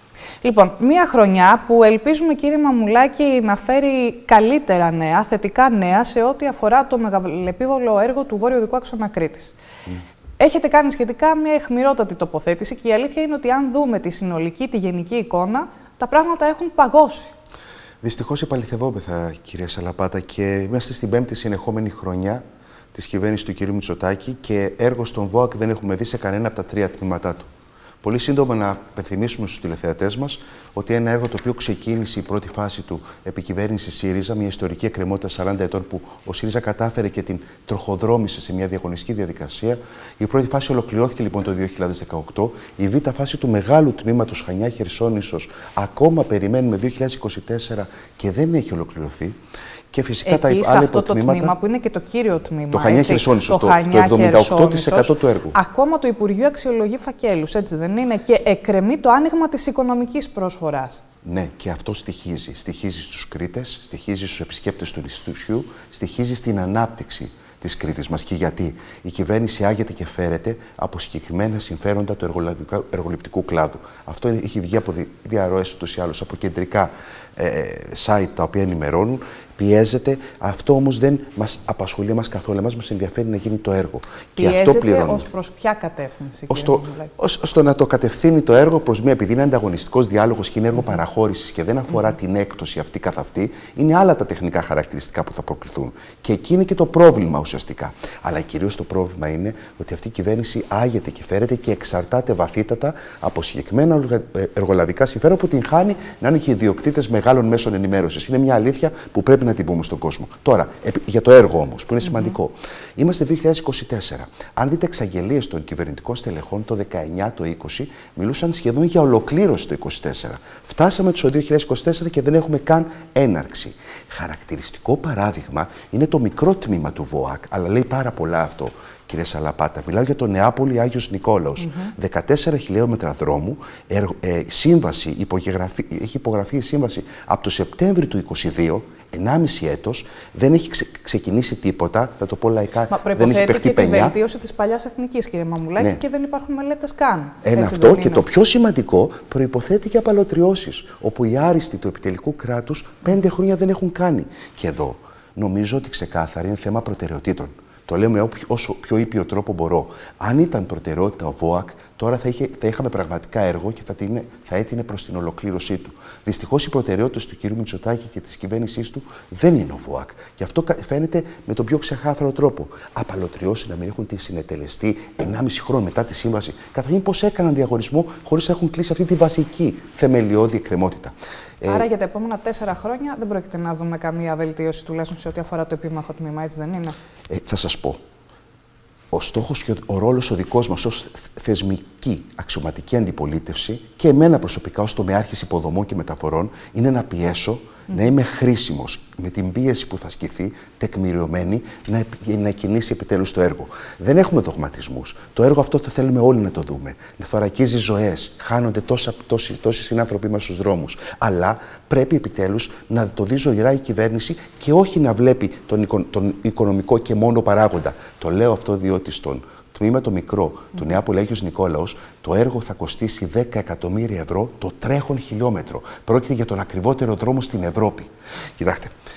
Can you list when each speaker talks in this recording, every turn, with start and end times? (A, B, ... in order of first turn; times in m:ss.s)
0:00.4-0:09.5 A
0:10.4-0:17.3 A
0:18.0-0:22.4 B
0:22.9-0:27.5 B
0:28.0-0:49.3 B
0:49.9-0:51.5 B
0:50.2-1:01.0 A
0:52.7-0:55.6 B
1:01.2-1:25.3 B
1:24.4-1:27.1 A
1:26.5-2:24.2 B
2:22.9-2:28.2 A
2:27.4-3:01.8 B
3:01.6-3:06.9 A
3:07.3-3:08.0 B
3:09.1-3:48.9 B